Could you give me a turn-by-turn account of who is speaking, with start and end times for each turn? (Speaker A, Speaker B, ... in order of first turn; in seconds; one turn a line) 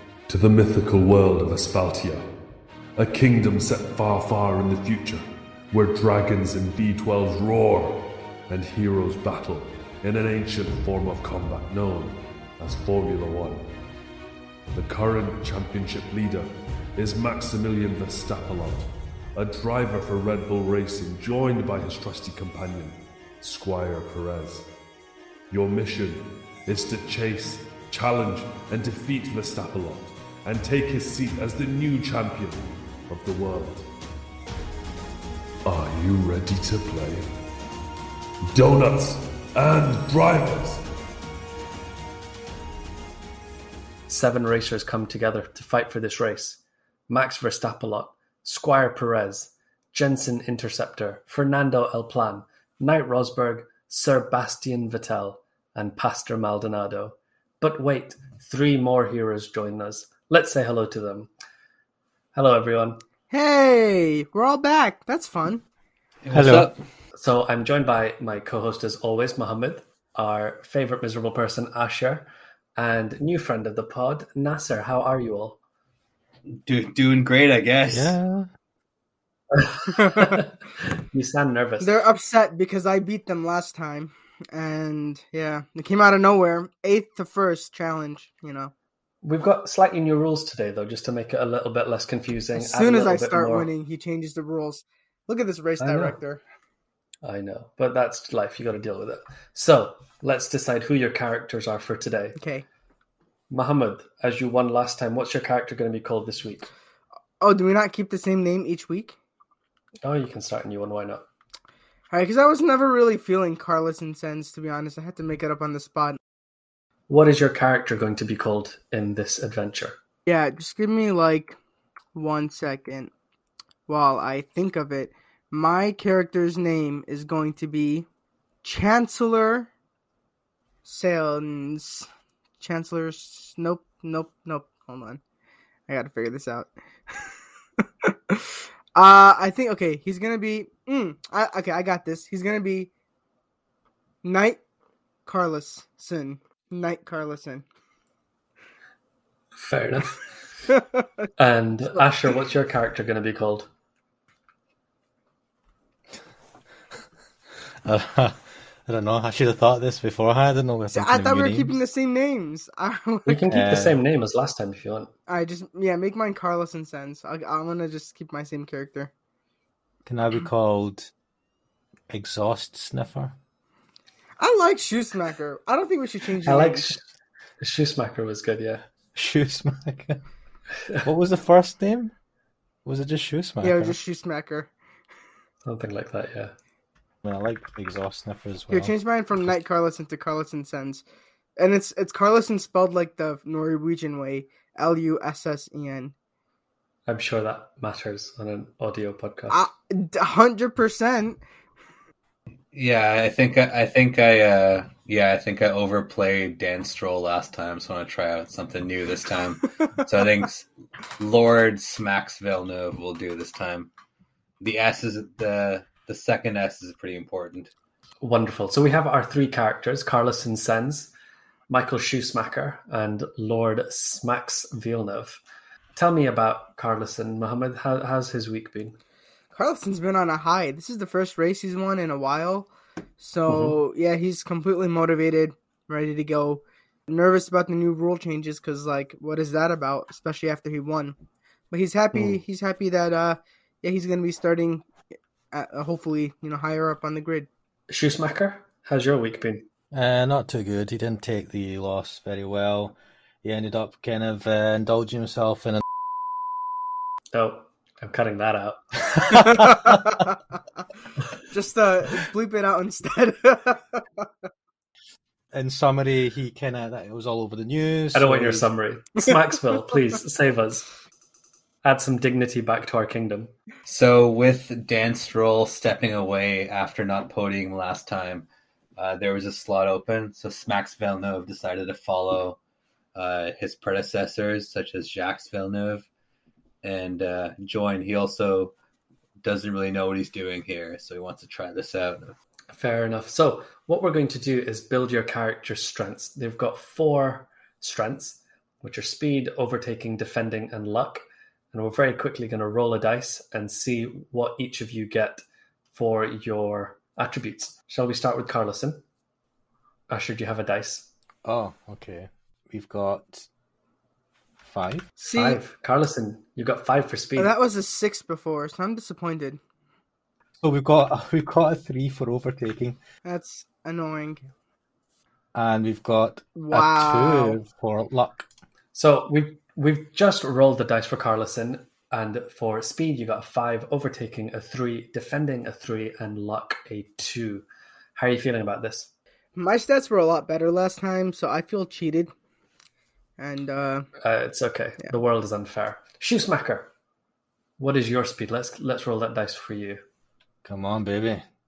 Speaker A: 0.3-2.2
Speaker A: 3.0-13.7
Speaker A: 14.7-24.7
Speaker A: 25.5-33.9
Speaker A: 35.6-37.3
Speaker A: 38.5-40.8
Speaker B: 44.1-61.3
Speaker B: 62.3-63.0
Speaker C: 63.3-65.6
Speaker D: 66.2-66.8
Speaker E: 66.3-66.7
Speaker B: 67.1-75.6
Speaker D: 76.5-78.2
Speaker E: 77.9-78.5
Speaker B: 79.5-81.9
Speaker C: 80.0-80.4
Speaker C: 81.8-88.7
Speaker B: 89.2-93.7
Speaker C: 92.5-96.4
Speaker B: 95.8-96.1
Speaker B: 97.2-102.4
Speaker C: 102.3-102.6
Speaker B: 103.5-106.7
Speaker C: 107.4-109.2
Speaker B: 110.0-111.2
Speaker C: 112.1-116.2
Speaker B: 117.1-120.0
Speaker C: 120.2-121.6
Speaker C: 122.1-123.1
Speaker C: 123.9-128.1
Speaker C: 128.6-129.7
Speaker C: 130.8-132.1
Speaker C: 132.6-135.2
Speaker C: 135.9-137.3
Speaker C: 137.8-142.9
Speaker C: 144.2-144.6
Speaker C: 145.2-147.6
Speaker B: 149.6-150.2
Speaker C: 150.7-151.2
Speaker B: 151.4-153.7
Speaker E: 157.8-161.8
Speaker C: 160.9-163.6
Speaker B: 163.2-165.1
Speaker E: 163.5-164.0
Speaker C: 165.3-169.1
Speaker E: 170.0-171.1
Speaker E: 172.1-173.3
Speaker C: 174.4-176.9
Speaker B: 176.4-177.0
Speaker B: 177.6-178.8
Speaker E: 179.1-180.2
Speaker E: 181.0-182.1
Speaker E: 182.8-184.0
Speaker C: 183.6-184.7
Speaker B: 185.6-186.5
Speaker E: 187.2-188.9
Speaker C: 188.7-191.0
Speaker C: 191.6-196.1
Speaker B: 197.1-199.6
Speaker C: 199.5-201.4
Speaker D: 202.7-210.7
Speaker D: 211.2-213.9
Speaker D: 214.6-217.7
Speaker B: 218.2-221.1
Speaker B: 221.7-225.4
Speaker B: 225.9-229.0
Speaker C: 229.5-241.2
Speaker B: 233.5-233.8
Speaker C: 241.7-244.9
Speaker B: 242.1-242.4
Speaker C: 245.5-247.5
Speaker B: 247.9-249.7
Speaker E: 249.9-255.8
Speaker B: 257.3-259.2
Speaker E: 259.2-260.1
Speaker C: 259.4-260.3
Speaker C: 261.5-264.2
Speaker E: 265.5-268.7
Speaker B: 268.1-270.9
Speaker B: 271.8-273.5
Speaker D: 273.9-282.6
Speaker D: 283.1-286.1
Speaker D: 286.8-288.7
Speaker D: 289.4-292.3
Speaker B: 292.7-309.0
Speaker B: 310.1-311.1
Speaker E: 311.4-313.5
Speaker E: 314.6-315.1
Speaker B: 315.2-317.5
Speaker C: 315.2-315.6
Speaker C: 317.4-319.6
Speaker E: 320.6-323.0
Speaker C: 323.2-324.5
Speaker E: 325.5-328.5
Speaker C: 326.6-327.6
Speaker B: 328.9-339.1
Speaker C: 339.5-342.3
Speaker C: 343.4-344.1
Speaker B: 344.2-346.9
Speaker B: 347.8-350.0
Speaker E: 350.6-351.4